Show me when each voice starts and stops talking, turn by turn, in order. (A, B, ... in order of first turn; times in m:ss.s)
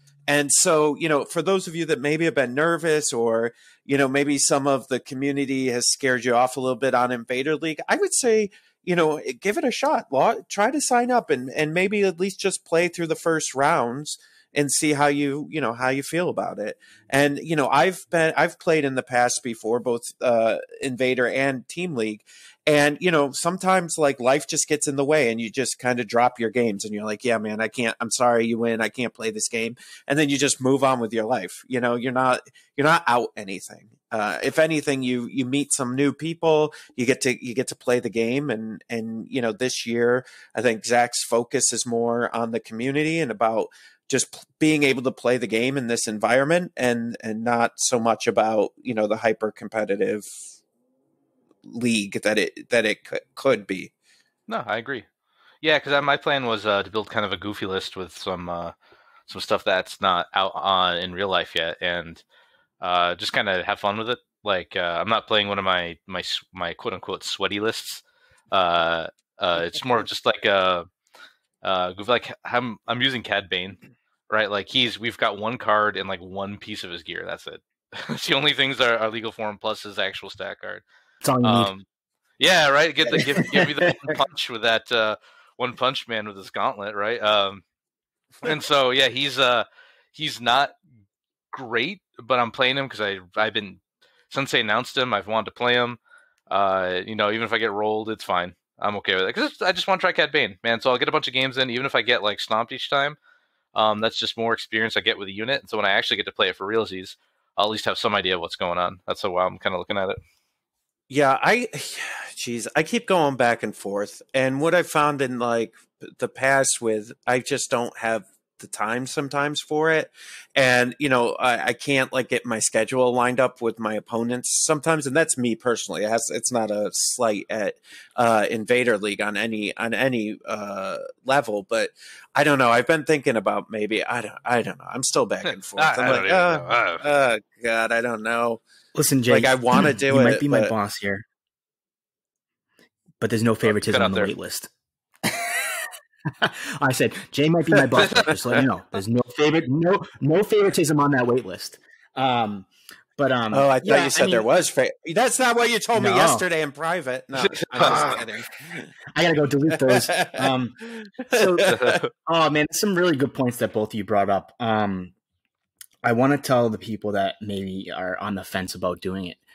0:00.3-0:50.3 A
0:51.6-0:53.9 A
0:54.5-0:55.0 B
0:55.6-0:58.7 B
0:59.3-1:02.2 B
1:02.8-1:10.8 B
1:11.6-1:13.8 B
1:14.3-1:20.8 B
1:21.2-1:21.7 C
1:21.4-1:21.8 B
1:22.4-1:27.6 B
1:23.1-1:24.1 C
1:28.4-1:30.7 B
1:31.5-1:36.0 B
1:36.5-1:43.2 B
1:43.7-1:50.2 B
1:51.1-2:18.6 A
2:15.4-2:17.0 B
2:18.9-2:21.2 C
2:19.3-2:20.7 A
2:23.2-2:24.7 C
2:23.7-2:24.3 B
2:25.2-2:34.4 C
2:28.0-2:28.4 B
2:33.5-2:38.9 A
2:35.9-2:36.4 C
2:37.4-2:38.1 B
2:37.8-2:38.3 C
2:39.1-2:45.1 C
2:39.7-2:41.9 A
2:41.6-2:42.1 B
2:46.0-2:49.4 C